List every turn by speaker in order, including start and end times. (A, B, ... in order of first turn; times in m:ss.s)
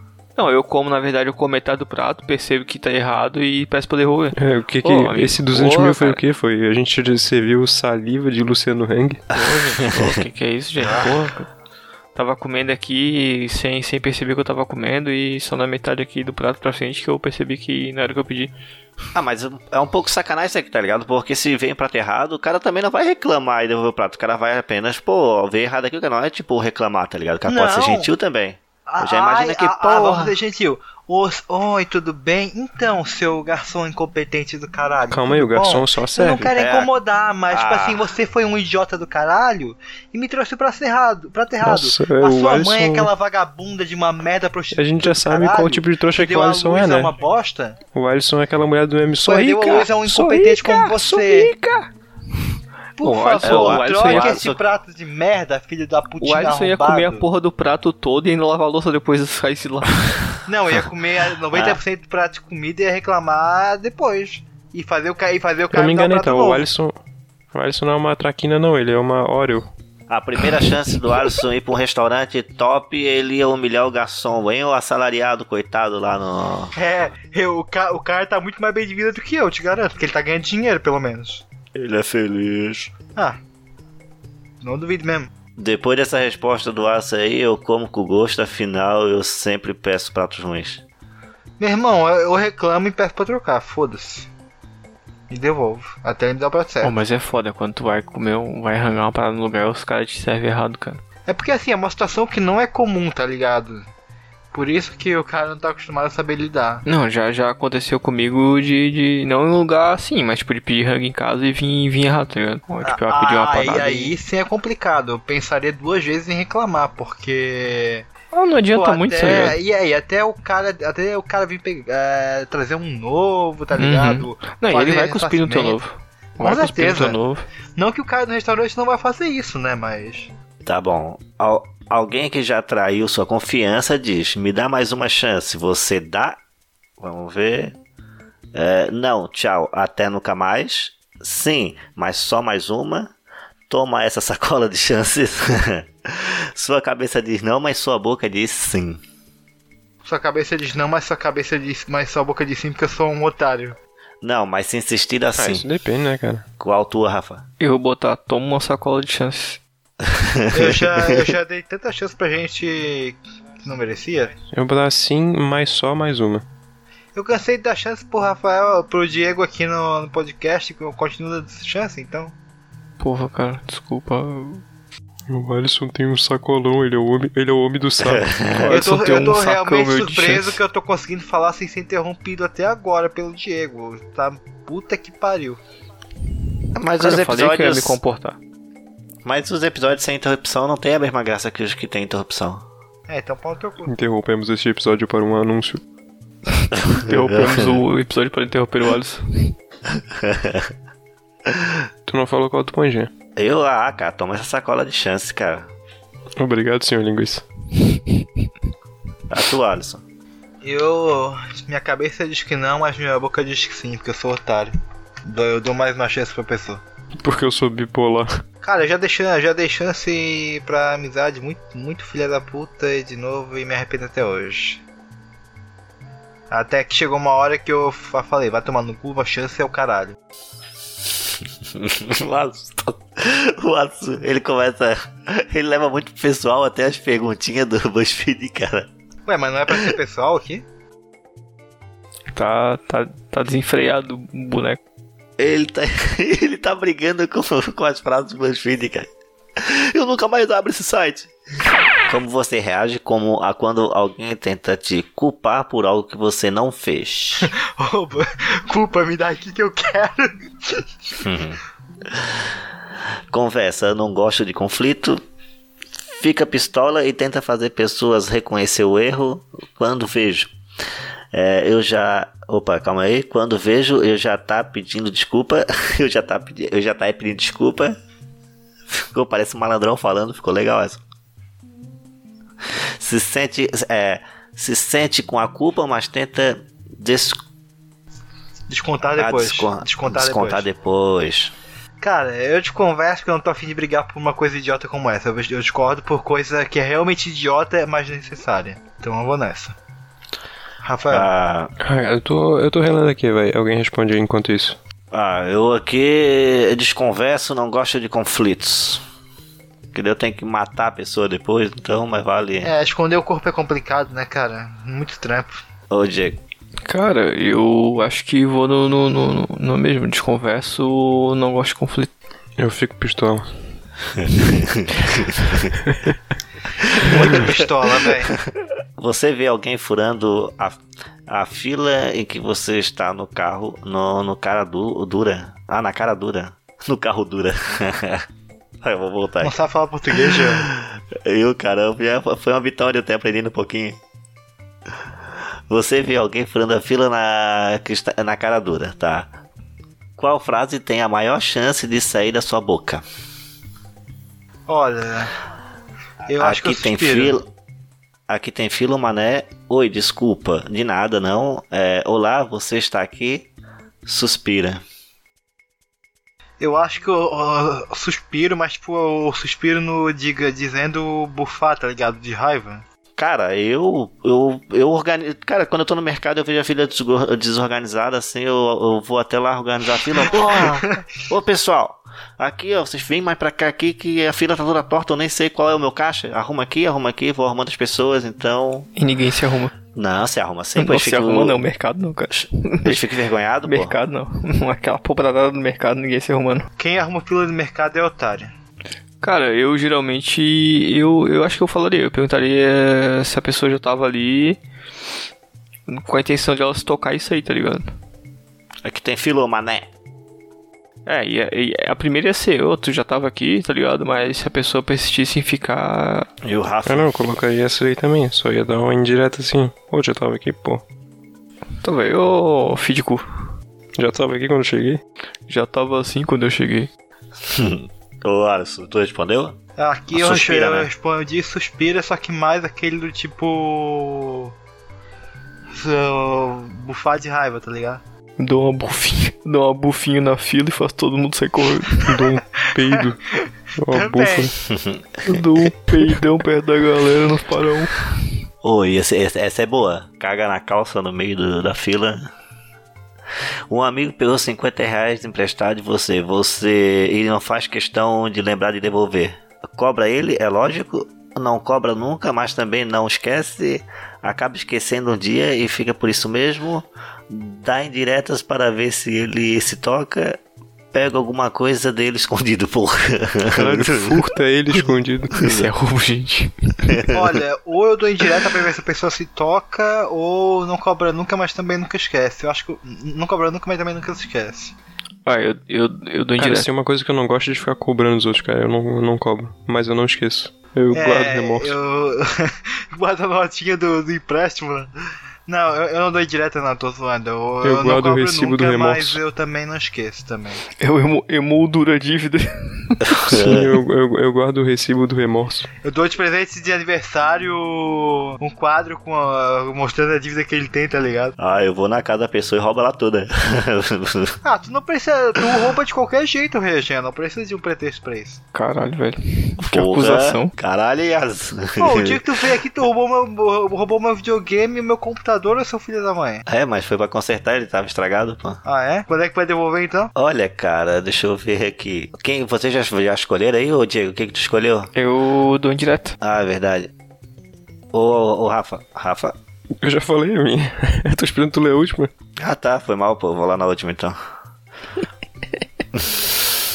0:00.4-0:06.2 A
0:04.4-0:09.2 B
0:09.3-0:11.5 A
0:09.3-0:10.1 C
0:12.2-0:18.5 A
0:19.1-0:30.4 C
0:27.5-0:28.1 D
0:28.9-0:47.8 D
0:35.1-0:36.5 B
0:36.6-0:36.9 C
0:37.5-0:38.1 C
0:41.6-0:43.1 B
0:44.7-0:47.1 B
0:47.9-0:51.2 B
0:49.2-0:51.5 D
0:51.1-0:51.9 A
0:53.0-0:57.2 D
0:53.0-0:54.5 A
0:53.4-0:54.6 C
0:56.2-1:00.0 A
1:00.5-1:06.7 D
1:01.5-1:01.8 C
1:05.7-1:07.0 B
1:07.5-1:09.7 B
1:10.1-1:16.7 C
1:16.8-1:21.4 D
1:21.8-1:22.9 C
1:24.6-1:25.3 D
1:25.6-1:30.8 C
1:31.6-1:34.3 D
1:35.3-1:37.0 D
1:36.8-1:41.0 A
1:41.3-1:43.9 D
1:44.5-1:46.8 D
1:46.8-1:54.1 A
1:52.8-1:58.1 D
1:58.3-1:59.6 A
1:58.7-2:05.8 D
2:03.8-2:07.4 A
2:06.4-2:07.2 D
2:07.8-2:10.3 D
2:10.6-2:16.4 C
2:17.0-2:17.8 C
2:18.5-2:23.1 C
2:23.7-2:29.0 C
2:30.0-2:33.8 D
2:34.2-2:35.6 C
2:35.4-2:36.4 B
2:36.6-2:37.4 C
2:37.6-2:39.6 A
2:40.0-2:41.3 C
2:40.5-2:44.3 D
2:44.5-2:46.4 B
2:47.2-2:52.3 D
2:53.0-2:54.6 A
2:55.3-2:58.6 B
2:58.0-2:58.7 C
2:58.7-3:00.6 A
2:58.7-3:05.6 D
3:06.8-3:08.0 C
3:07.0-3:08.4 A
3:09.2-3:12.6 C
3:13.1-3:13.9 D
3:13.9-3:15.8 B
3:16.6-3:19.5 A
3:16.8-3:17.7 C
3:20.2-3:20.7 C
3:21.5-3:21.8 C
3:22.1-3:23.1 B
3:23.4-3:25.7 C
3:26.4-3:27.4 B
3:29.3-3:30.0 C
3:30.6-3:34.7 D
3:35.2-3:36.8 D
3:37.2-3:38.3 B
3:38.6-3:44.8 D
3:46.5-3:50.2 D
3:51.7-3:58.9 C
3:59.3-4:00.6 D
4:02.4-4:04.8 A
4:05.4-4:11.3 C
4:12.1-4:17.5 C
4:17.4-4:20.9 D
4:21.2-4:22.5 C
4:23.3-4:25.2 C
4:26.2-4:30.5 C
4:31.3-4:38.0 C
4:38.9-4:41.0 C
4:43.0-4:47.4 C
4:48.7-4:50.6 D
4:49.2-4:51.5 C
4:52.0-4:59.8 D
5:00.8-5:01.3 D
5:01.1-5:01.7 C
5:01.8-5:04.8 B
5:05.1-5:09.0 C
5:09.9-5:12.7 C
5:12.6-5:15.6 D
5:15.9-5:16.4 C
5:16.8-5:22.1 A
5:22.6-5:23.5 B
5:24.2-5:25.7 C
5:25.9-5:26.1 B
5:27.0-5:28.4 D
5:27.0-5:28.1 C
5:29.0-5:38.2 C
5:38.8-5:39.6 C
5:39.4-5:40.7 D
5:40.1-5:44.0 C
5:45.7-5:49.3 C
5:50.2-5:53.0 C
5:54.7-5:55.3 D
5:56.3-5:57.4 D
5:56.4-5:57.5 C
5:58.3-6:03.5 C
6:04.0-6:04.8 C
6:06.6-6:12.8 D
6:13.2-6:28.9 C
6:20.1-6:21.0 D
6:29.0-6:29.7 A
6:30.0-6:31.6 C
6:30.8-6:33.0 A
6:32.3-6:34.0 C
6:33.7-6:36.7 A
6:36.8-6:38.5 D
6:39.2-6:44.6 A
6:45.9-6:47.9 A
6:48.8-6:49.9 C
6:51.1-6:56.3 A
6:56.4-6:57.1 C
6:56.9-7:00.8 B
7:01.8-7:03.2 A
7:04.0-7:05.0 B
7:05.5-7:06.9 A
7:07.4-7:09.6 C
7:09.8-7:14.5 D
7:10.1-7:10.9 C
7:15.7-7:18.0 D
7:18.4-7:22.0 A
7:22.0-7:23.2 B
7:23.8-7:24.6 B
7:23.9-7:24.5 D
7:24.7-7:25.0 C
7:25.2-7:27.9 A
7:28.6-7:32.3 C
7:33.7-7:50.4 C
7:50.9-7:54.2 C
7:53.5-7:55.5 B
7:55.4-7:56.9 A
7:56.9-7:57.3 C
7:57.1-8:04.7 D
8:05.3-8:06.7 A
8:06.4-8:11.8 B
8:10.9-8:14.9 D
8:15.5-8:20.6 D
8:17.6-8:19.2 B
8:20.8-8:23.1 A
8:23.1-8:23.7 C
8:23.3-8:25.7 B
8:25.8-8:31.4 D
8:31.4-8:34.4 C
8:34.4-8:38.4 D
8:38.5-8:40.5 A
8:39.6-8:42.5 C
8:41.8-8:46.4 D
8:46.5-8:48.6 C
8:48.6-8:50.1 D
8:50.2-8:54.9 C
8:55.0-8:56.2 A
8:56.2-8:56.9 C
8:57.9-8:59.4 C
8:59.8-9:02.1 B
9:02.4-9:04.2 C
9:06.0-9:06.6 C